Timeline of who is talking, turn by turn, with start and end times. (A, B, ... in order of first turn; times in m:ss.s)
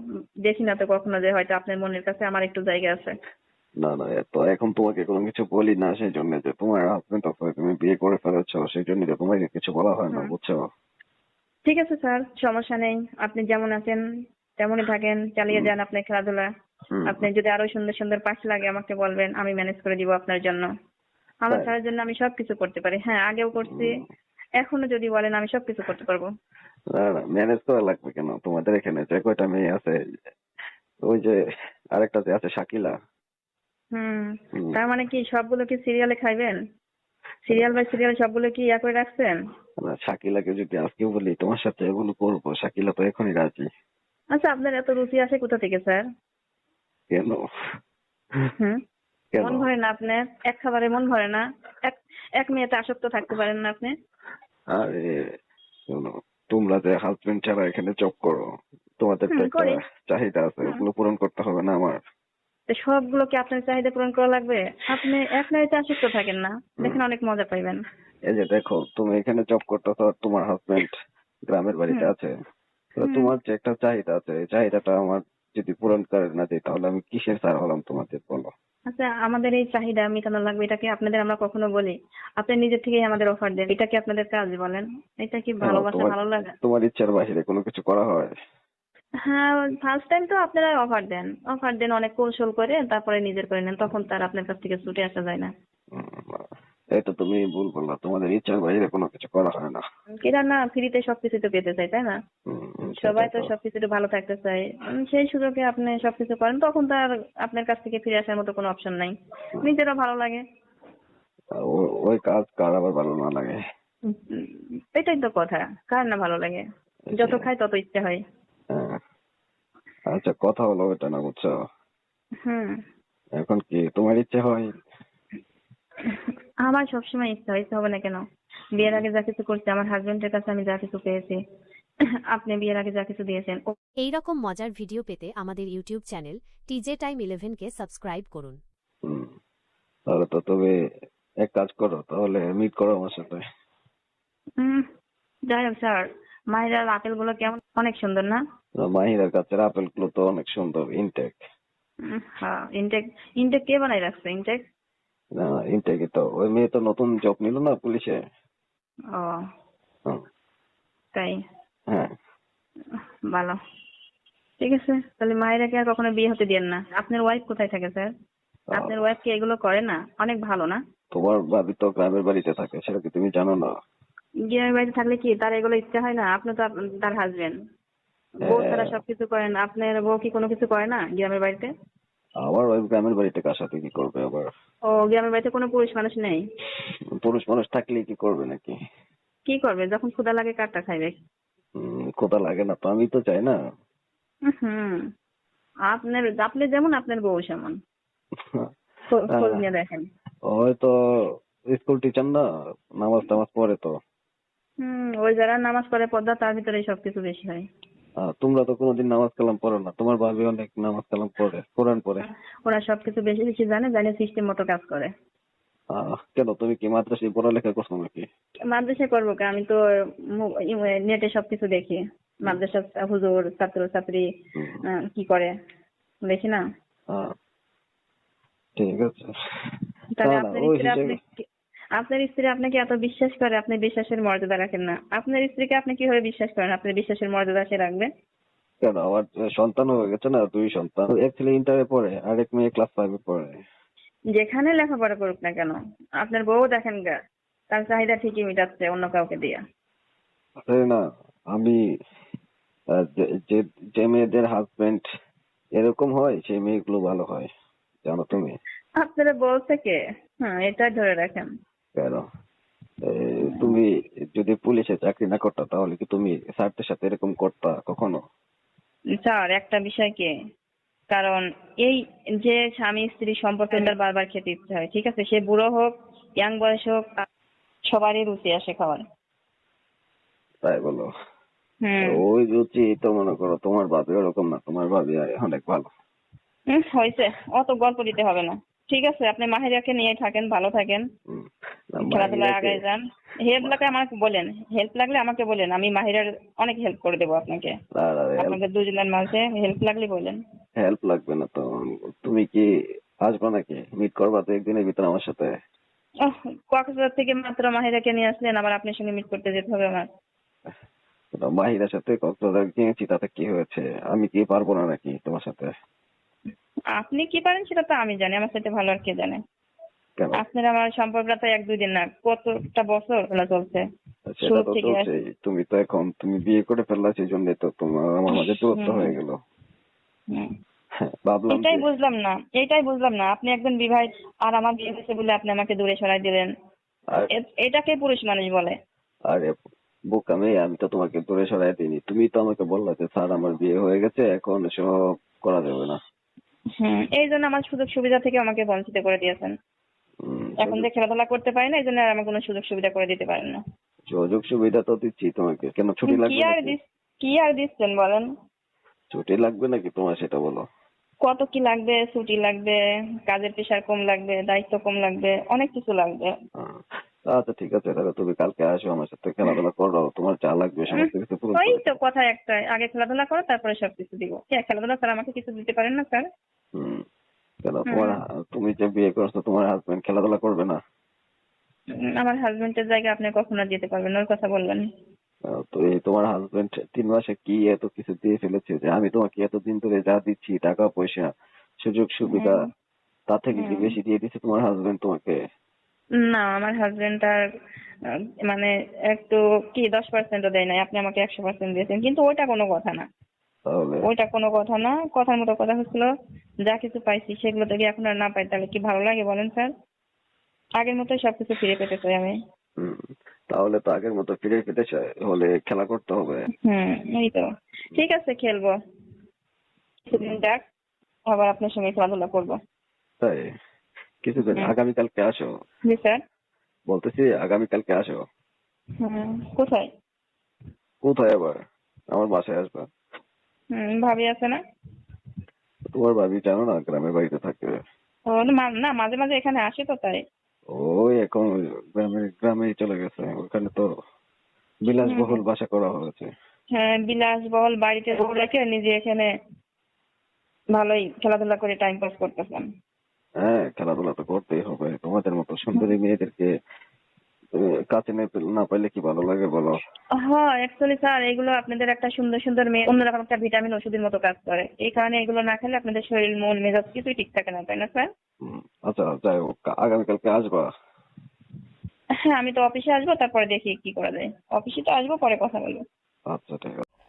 0:00.5-0:03.1 A
0:03.8-0:10.6 B
0:11.6-0:14.0 A
0:14.6-0:16.5 A
0:16.9-0:17.3 B
0:17.1-0:20.6 A
0:21.4-0:23.9 A
0:23.6-0:24.1 B
0:24.6-0:26.2 A
0:26.9-0:30.0 B
0:31.0-0:31.4 B
0:31.9-0:32.9 B
0:33.9-0:36.6 A
0:37.5-0:39.4 A
0:39.8-0:43.6 B
0:44.3-0:46.0 A
0:47.1-0:47.4 B
0:49.3-0:49.6 B
0:49.4-0:53.9 A
0:54.7-0:55.1 B
0:55.9-0:58.4 B
0:59.0-1:02.0 B
0:59.3-0:59.8 A
1:02.7-1:07.8 A
1:08.3-1:12.3 B
1:13.0-1:18.5 B
1:13.0-1:13.3 A
1:18.9-1:26.5 A
1:25.6-1:28.3 B
1:29.2-1:35.5 A
1:35.9-1:39.8 B
1:40.2-1:42.2 A
1:42.5-1:43.5 B
1:43.0-1:50.4 A
1:51.6-1:53.6 B
1:54.1-1:56.6 A
1:57.1-1:57.4 B
1:57.2-1:58.2 A
1:58.7-1:59.0 B
2:00.1-2:01.5 B
2:02.4-2:02.8 A
2:03.4-2:04.7 B
2:06.1-2:08.2 A
2:08.8-2:11.4 A
2:12.3-2:13.6 A
2:14.0-2:18.6 C
2:19.0-2:19.3 B
2:20.1-2:20.7 B
2:21.4-2:23.4 B
2:24.6-2:24.8 A
2:25.5-2:28.4 A
2:28.8-2:31.4 B
2:32.1-2:34.6 A
2:35.4-2:38.2 B
2:43.3-2:43.6 A
2:44.6-2:48.1 A
2:48.8-2:49.1 B
2:48.8-2:50.8 A
2:51.1-2:53.7 B
2:54.5-2:57.5 A
2:58.4-2:59.0 B
2:58.4-3:01.7 A
3:02.4-3:04.5 B
3:04.9-3:06.4 A
3:07.1-3:08.7 B
3:09.5-3:11.2 A
3:11.8-3:13.6 B
3:14.5-3:15.0 A
3:15.9-3:17.8 A
3:19.1-3:20.0 A
3:19.3-3:19.6 B
3:20.5-3:20.9 B
3:21.7-3:22.4 B
3:23.0-3:23.9 B
3:24.8-3:27.6 A
3:28.2-3:32.2 B
3:32.6-3:35.1 A
3:35.9-3:38.2 B
3:38.7-3:39.8 A
3:40.4-3:44.2 A
3:44.6-3:44.8 B
3:44.9-3:45.5 A
3:46.3-3:46.6 A
3:48.8-3:49.3 B
3:50.2-3:51.4 A
3:50.2-3:51.2 B
3:52.0-3:58.1 A
3:58.8-4:03.6 B
4:04.4-4:07.1 A
4:07.7-4:09.6 A
4:10.7-4:11.0 B
4:11.5-4:11.8 B
4:12.9-4:15.0 B
4:15.8-4:17.5 B
4:18.0-4:18.6 B
4:19.0-4:21.4 A
4:22.0-4:22.2 B
4:23.1-4:28.2 B
4:23.5-4:23.8 A
4:29.2-4:30.3 A
4:31.1-4:37.2 A
4:37.9-4:39.0 A
4:40.6-4:41.1 B
4:41.8-4:42.2 A
4:42.0-4:45.8 B
4:46.7-4:51.0 A
4:51.3-4:52.8 B
4:52.0-4:57.7 A
4:58.0-4:58.6 B
4:58.4-5:00.4 A
5:00.8-5:01.6 B
5:02.2-5:02.6 B
5:03.2-5:05.5 B
5:06.3-5:10.0 A
5:11.4-5:15.7 B
5:17.0-5:19.4 A
5:20.4-5:23.8 A
5:24.3-5:29.4 B
5:24.4-5:25.1 A
5:28.3-5:29.1 A
5:31.0-5:31.8 B
5:31.5-5:36.5 A
5:37.4-5:38.7 A
5:40.1-5:44.9 B
5:45.4-5:46.0 B
5:46.8-5:49.5 A
5:50.2-5:50.9 B
5:50.6-5:53.6 A
5:54.1-5:56.7 B
5:56.1-5:58.3 A
5:59.1-6:00.6 B
6:01.2-6:02.8 A
6:03.3-6:06.3 A
6:06.6-6:11.9 B
6:10.9-6:16.2 A
6:16.8-6:17.0 B
6:17.6-6:20.8 B
6:17.9-6:18.2 A
6:22.2-6:24.8 A
6:25.5-6:31.3 B
6:31.8-6:32.6 B
6:32.3-6:32.6 A
6:33.3-6:35.4 B
6:33.6-6:33.9 A
6:36.2-6:37.4 A
6:38.5-6:43.0 A
6:43.7-6:44.0 B
6:44.0-6:46.1 A
6:46.6-6:49.7 A
6:50.8-6:52.3 A
6:52.8-6:56.5 B
6:56.6-6:58.7 A
7:00.0-7:00.6 A
7:01.3-7:02.6 A
7:03.2-7:03.5 B
7:04.2-7:05.5 B
7:05.9-7:06.2 A
7:06.9-7:08.2 B
7:09.0-7:09.9 A
7:11.0-7:11.6 B
7:12.1-7:12.8 B
7:13.7-7:14.6 A
7:15.9-7:17.8 B
7:18.3-7:20.2 A
7:20.7-7:23.9 B
7:24.8-7:26.3 B
7:25.1-7:25.4 A
7:26.7-7:29.3 A
7:30.8-7:32.6 A
7:33.4-7:36.5 B
7:37.6-7:39.8 B
7:40.3-7:48.1 A
7:48.4-7:50.6 B
7:52.3-7:55.8 A
7:56.3-7:56.8 B